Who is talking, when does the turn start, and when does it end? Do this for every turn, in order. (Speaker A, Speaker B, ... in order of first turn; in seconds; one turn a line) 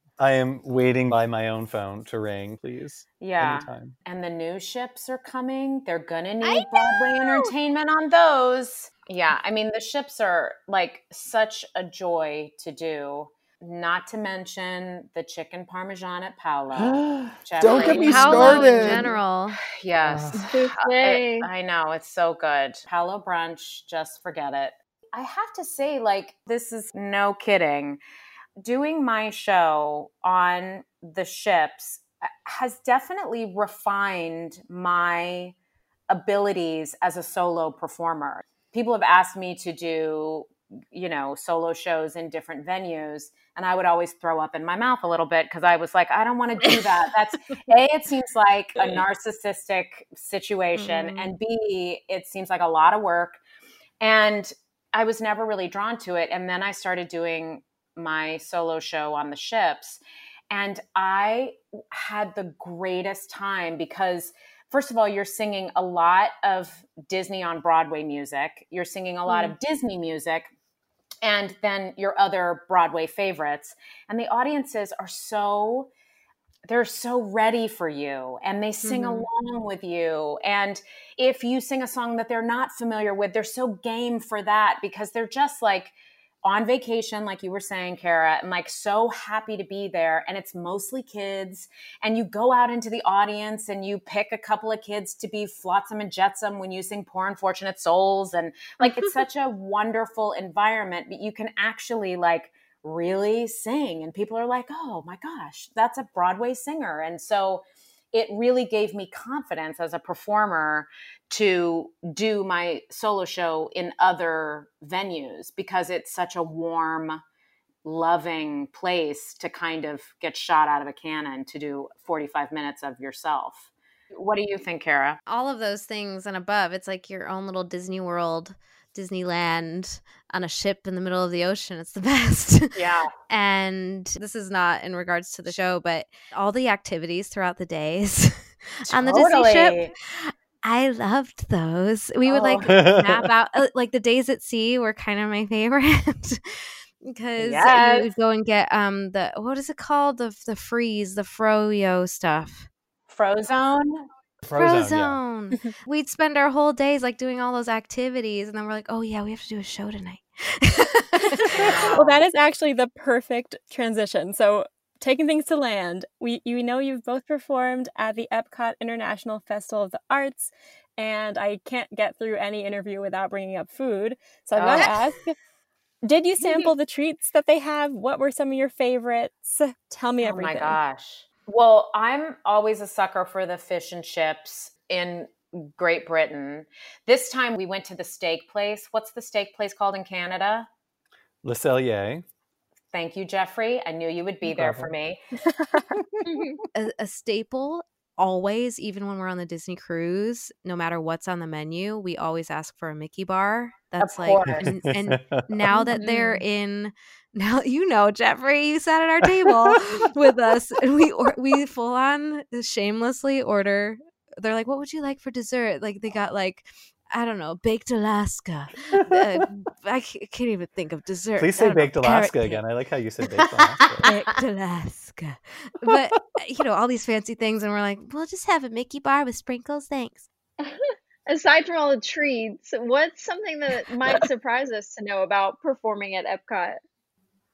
Speaker A: 0.2-4.0
Speaker B: 3.2-28.0
Speaker C: 6.4-7.5
Speaker A: 16.7-19.1
Speaker C: 17.7-19.6
Speaker A: 20.1-20.4
Speaker D: 20.4-21.5
Speaker B: 28.6-35.6
Speaker B: 36.1-53.4
Speaker C: 50.8-51.4
Speaker B: 54.0-70.5
Speaker C: 69.3-69.5
Speaker B: 71.2-75.9
Speaker B: 76.7-117.2
Speaker C: 78.8-79.3
Speaker B: 117.8-125.2
Speaker C: 125.3-152.7
Speaker B: 132.8-133.1
Speaker B: 138.9-139.9
Speaker B: 142.3-142.8
Speaker A: 142.7-143.3
Speaker B: 147.4-148.1
Speaker B: 153.1-154.0
Speaker A: 154.4-155.2
Speaker C: 154.5-161.7
Speaker E: 161.2-175.4
Speaker B: 161.5-162.2
Speaker B: 174.6-175.0
Speaker E: 176.0-180.8
Speaker B: 180.2-190.7
Speaker A: 191.4-192.2
Speaker B: 192.9-195.2
Speaker A: 194.4-194.9
Speaker E: 195.5-195.9
Speaker B: 195.9-196.6
Speaker D: 196.3-196.6
Speaker C: 196.8-222.6
Speaker B: 204.0-204.7
Speaker A: 204.5-205.5
Speaker D: 206.0-206.4
Speaker A: 209.3-209.8
Speaker A: 218.9-219.5
Speaker A: 221.4-224.1
Speaker C: 223.5-230.3
Speaker D: 230.6-236.8